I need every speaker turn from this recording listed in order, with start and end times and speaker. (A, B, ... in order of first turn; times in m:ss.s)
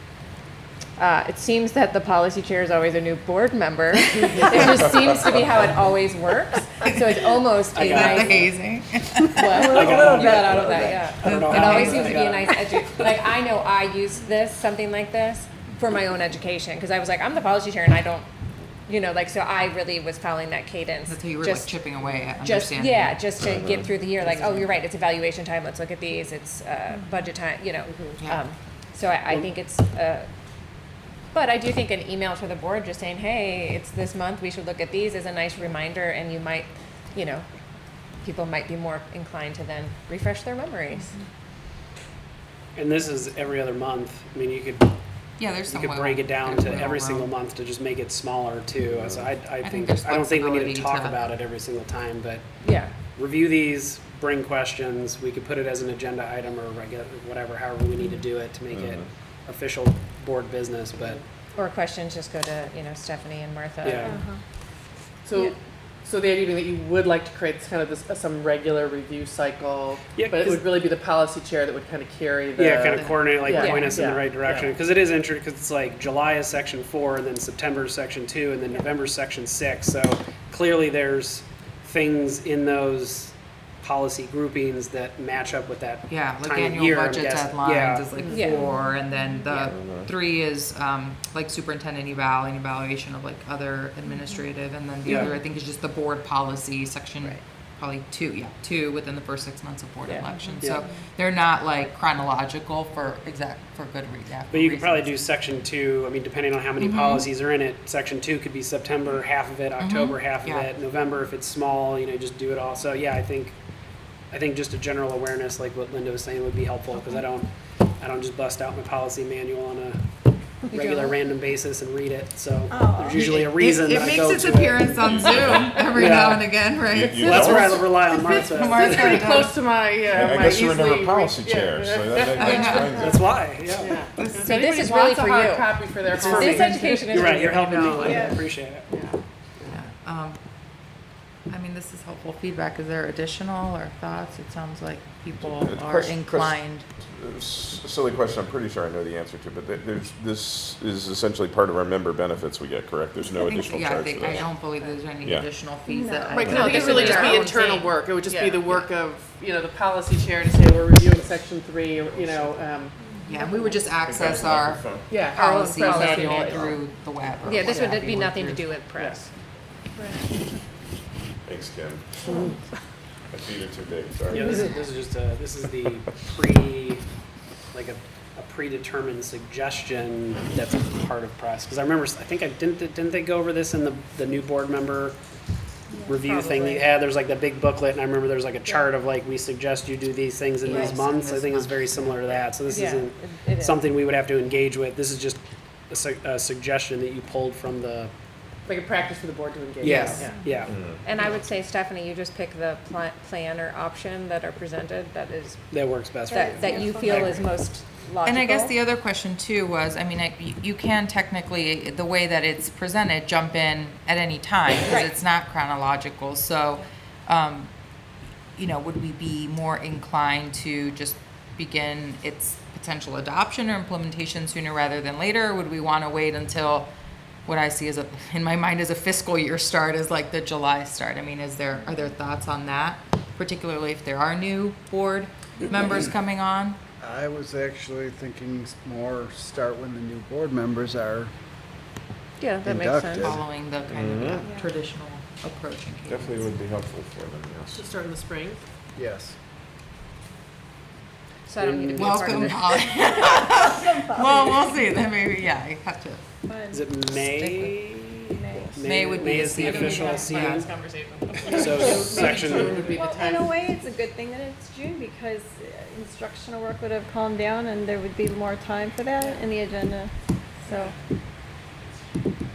0:01.0-0:08.4 A
0:07.7-0:08.6 B
0:07.8-0:12.1 C
0:09.3-0:18.3 A
0:09.5-0:13.2 B
0:09.7-0:10.2 D
0:18.8-0:21.7 A
0:21.1-0:23.2 C
0:22.4-0:30.3 A
0:23.4-0:23.9 E
0:24.1-0:24.8 C
0:31.3-0:37.4 A
0:38.2-0:41.1 A
0:42.7-0:44.9 B
0:45.4-0:47.3 C
0:45.6-0:52.5 B
0:48.9-0:49.2 E
0:49.6-0:51.3 C
0:52.6-0:52.9 A
0:53.1-1:01.2 B
0:58.7-0:59.0 E
1:01.6-1:04.2 A
1:03.8-1:04.2 B
1:04.0-1:04.4 D
1:05.2-1:14.8 F
1:10.1-1:10.7 B
1:12.5-1:28.2 B
1:13.5-1:14.0 A
1:26.1-1:45.1 C
1:28.2-1:28.6 A
1:28.6-1:28.9 D
1:29.7-1:30.1 E
1:35.0-1:35.4 B
1:40.6-1:40.9 B
1:44.5-1:53.5 B
1:46.8-1:47.3 C
1:49.8-1:50.7 C
1:54.3-1:57.5 B
1:58.0-2:00.0 B
2:00.7-2:06.5 B
2:00.7-2:01.1 A
2:02.7-2:03.2 D
2:03.1-2:09.6 C
2:05.0-2:05.8 E
2:06.9-2:07.9 E
2:07.0-2:09.0 B
2:08.3-2:12.7 F
2:10.1-2:13.3 E
2:12.3-2:13.1 C
2:12.6-2:13.0 D
2:12.9-2:14.1 B
2:13.7-2:17.2 F
2:14.1-2:14.6 C
2:14.3-2:18.4 A
2:16.1-2:18.9 B
2:16.6-2:18.3 C
2:18.0-2:18.4 D
2:18.9-2:19.2 F
2:19.7-2:20.4 C
2:21.5-2:26.8 C
2:25.4-2:34.4 E
2:33.3-2:37.8 C
2:35.9-2:36.9 D
2:36.3-2:43.0 F
2:36.4-2:38.9 A
2:41.0-2:41.5 E
2:42.0-2:42.6 E
2:43.0-2:43.7 D
2:43.2-2:48.7 C
2:44.0-2:45.1 E
2:45.1-2:46.8 F
2:45.4-2:46.6 A
2:46.3-2:46.8 E
2:47.4-2:47.7 E
2:47.4-2:49.3 A
2:47.8-2:48.1 F
2:50.0-2:50.2 D
2:51.4-2:52.5 E
2:53.3-2:54.6 E
2:54.3-2:57.0 B
2:57.7-3:05.2 B
3:06.0-3:18.1 B
3:06.1-3:06.9 A
3:10.6-3:12.4 C
3:10.7-3:11.0 A
3:12.6-3:13.8 A
3:18.7-3:20.3 F
3:19.8-3:21.2 B
3:20.7-3:21.0 E
3:21.0-3:25.6 A
3:25.7-3:27.4 B
3:26.3-3:28.7 A
3:26.3-3:27.4 D
3:28.2-3:37.7 C
3:38.6-3:46.9 C
3:47.4-3:56.8 C
3:57.0-4:01.3 G
4:02.4-4:03.3 A
4:02.6-4:03.4 G
4:03.2-4:06.5 C
4:03.9-4:04.4 E
4:04.4-4:04.7 D
4:06.1-4:07.8 E
4:07.7-4:08.6 F
4:09.0-4:09.3 G
4:11.5-4:12.9 A
4:11.6-4:12.5 B
4:11.9-4:16.2 C
4:13.2-4:14.8 D
4:16.5-4:16.9 D
4:16.7-4:20.7 B
4:17.2-4:17.8 C
4:18.3-4:18.8 D
4:18.8-4:20.7 C
4:19.7-4:20.2 A
4:19.7-4:20.2 D
4:20.2-4:23.6 F
4:21.4-4:22.9 B
4:21.6-4:22.0 A
4:21.8-4:22.2 D
4:22.9-4:30.1 D
4:30.6-4:30.9 D